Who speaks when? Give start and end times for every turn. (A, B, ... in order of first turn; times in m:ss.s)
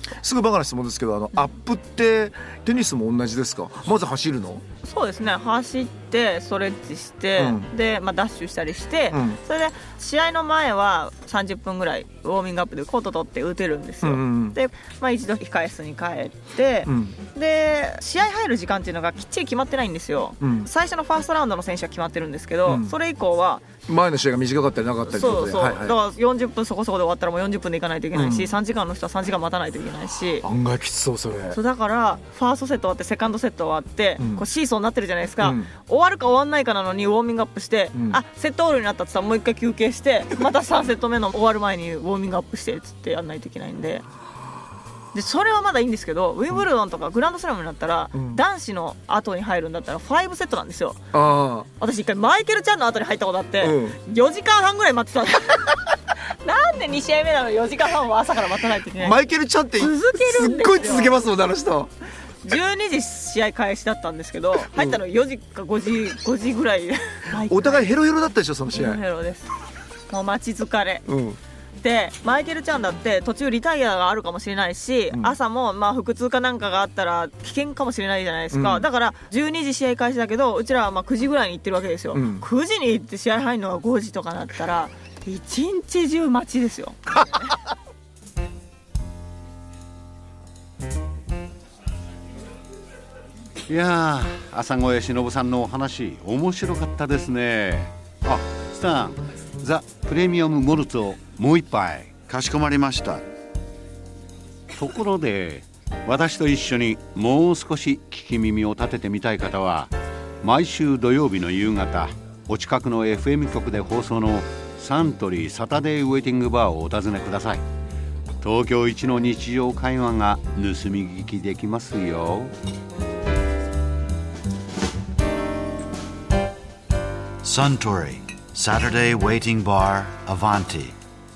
0:00.1-0:04.6 A
0:04.8-0:23.7 B
0:07.4-0:07.7 A
0:09.1-0:09.4 A
0:14.0-0:14.6 A
0:16.9-0:17.2 A
0:20.4-0:20.7 A
0:22.6-0:22.9 A
0:23.9-0:26.0 A
0:25.1-0:30.5 B
0:28.1-0:28.5 A
0:30.4-0:31.6 A
0:31.5-0:44.1 B
0:34.2-0:34.4 A
0:35.4-0:35.7 A
0:37.9-0:38.2 A
0:45.1-0:51.0 B
0:48.1-0:48.4 A
0:51.1-0:51.7 A
0:51.8-0:59.2 B
0:53.6-0:54.0 A
0:59.0-1:01.9 A
0:59.8-1:01.2 B
1:02.4-1:08.0 B
1:04.7-1:05.0 A
1:07.4-1:09.0 A
1:08.7-1:09.5 B
1:10.1-1:11.1 B
1:11.1-1:11.4 A
1:11.8-1:27.6 B
1:15.1-1:15.4 A
1:18.5-1:18.9 A
1:22.1-1:22.4 A
1:33.7-1:42.1 C
1:42.3-1:43.2 D
1:44.8-1:49.9 C
1:50.4-1:57.6 C
1:58.4-2:02.5 C
2:07.4-2:11.0 D